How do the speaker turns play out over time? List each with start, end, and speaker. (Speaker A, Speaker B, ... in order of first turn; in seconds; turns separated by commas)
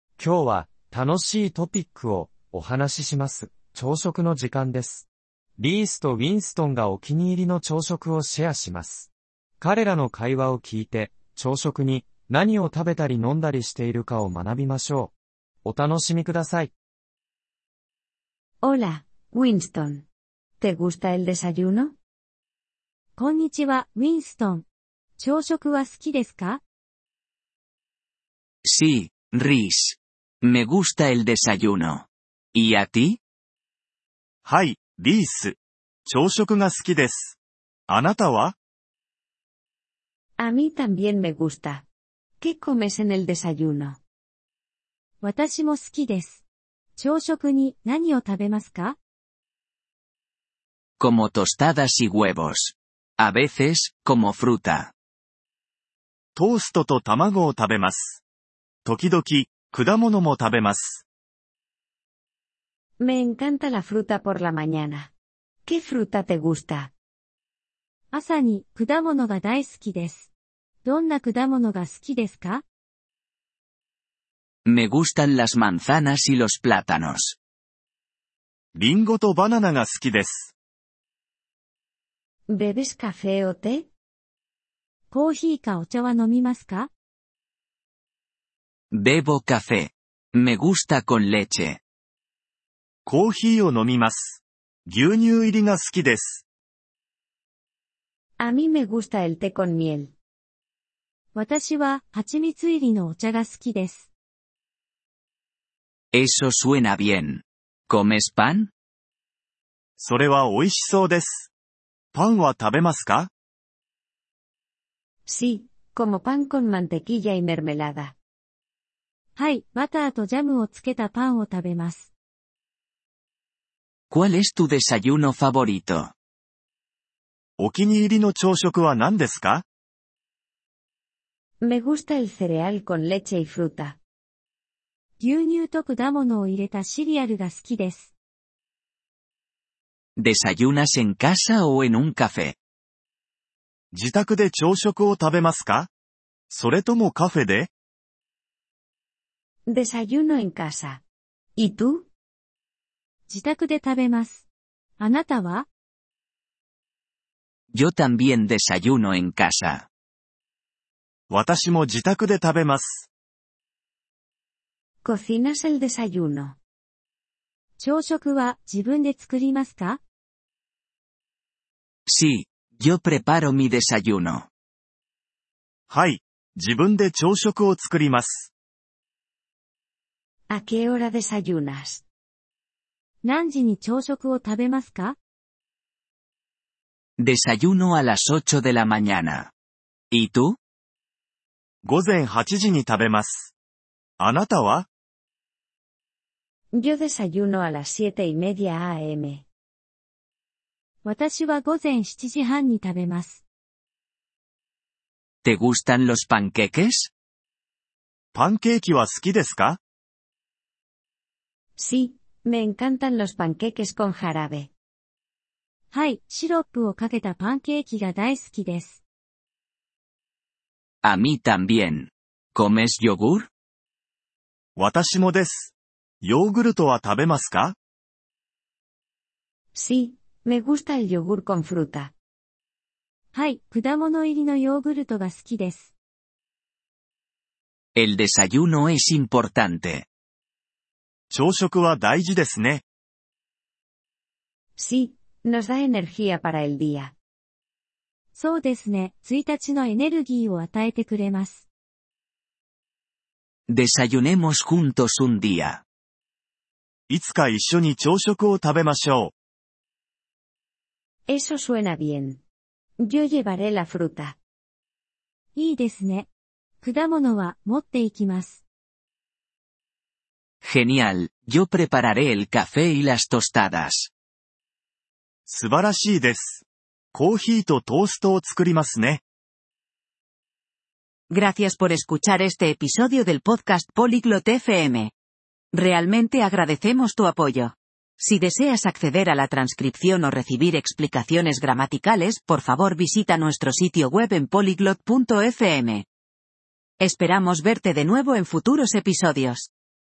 Speaker A: 0.2-5.1, Speaker A: 5.6-9.1, Speaker A: 9.6-15.1, Speaker A: 15.6-16.7, Speaker B: 18.6-20.1, Speaker B: 20.6-21.9, Speaker C: 23.2-24.7, Speaker C: 25.2-26.6, Speaker D: 28.6-33.2, Speaker E: 34.5-37.4, Speaker E: 37.9-38.6, Speaker B: 40.4-41.9, Speaker B: 42.4-44.0, Speaker C: 45.2-46.4, Speaker C: 47.0-49.0, Speaker D: 51.0-54.9, Speaker E: 56.4-58.2, Speaker E: 58.9-61.0, Speaker B: 63.0-65.1, Speaker B: 65.7-66.9, Speaker C: 68.1-70.3, Speaker C: 70.8-72.6, Speaker D: 74.7-77.4, Speaker E: 78.8-80.5, Speaker B: 82.5-83.9, Speaker C: 85.1-86.9, Speaker D: 88.9-91.8, Speaker E: 93.1-96.4, Speaker B: 98.4-100.1, Speaker C: 101.3-104.1, Speaker D: 106.1-108.7, Speaker E: 110.0-111.5, Speaker E: 112.1-113.3, Speaker B: 115.3-118.2, Speaker C: 119.4-122.1, Speaker D: 124.1-126.1, Speaker E: 127.6-129.7, Speaker B: 131.6-134.0, Speaker C: 135.2-138.1, Speaker D: 140.2-142.6, Speaker E: 143.9-145.9, Speaker E: 146.5-147.7, Speaker B: 149.7-151.0, Speaker B: 151.6-152.1, Speaker C: 153.3-154.5, Speaker C: 155.0-155.7, Speaker D: 157.7-159.9, Speaker E: 161.3-163.1, Speaker B: 165.1-166.6, Speaker C: 167.8-170.0, Speaker D: 172.1-174.5, Speaker E: 175.9-178.5, Speaker B: 180.5-182.0, Speaker C: 183.2-185.2, Speaker D: 187.2-189.5, Speaker D: 190.1-190.6, Speaker E: 191.8-193.5, Speaker E: 194.2-194.9, Speaker B: 196.7-199.4, Speaker C: 201.1-203.4, Speaker D: 205.4-207.1, Speaker E: 208.3-209.8, Speaker B: 211.8-214.7, Speaker C: 215.9-219.0, Speaker D: 221.0-223.5, Speaker E: 224.8-227.8, Speaker B: 229.8-232.1, Speaker C: 233.3-235.9, Speaker D: 238.0-240.1, Speaker E: 241.3-242.8, Speaker B: 244.8-247.1, Speaker C: 248.3-251.7, Speaker D: 253.7-255.8, Speaker E: 257.1-259.3, Speaker B: 261.3-262.4, Speaker B: 263.0-264.4, Speaker C: 265.6-266.3, Speaker C: 266.8-268.6, Speaker D: 270.6-274.1, Speaker E: 275.5-279.2, Speaker F: 281.3-285.1, Speaker F: 285.7-296.1, Speaker F: 297.0-299.7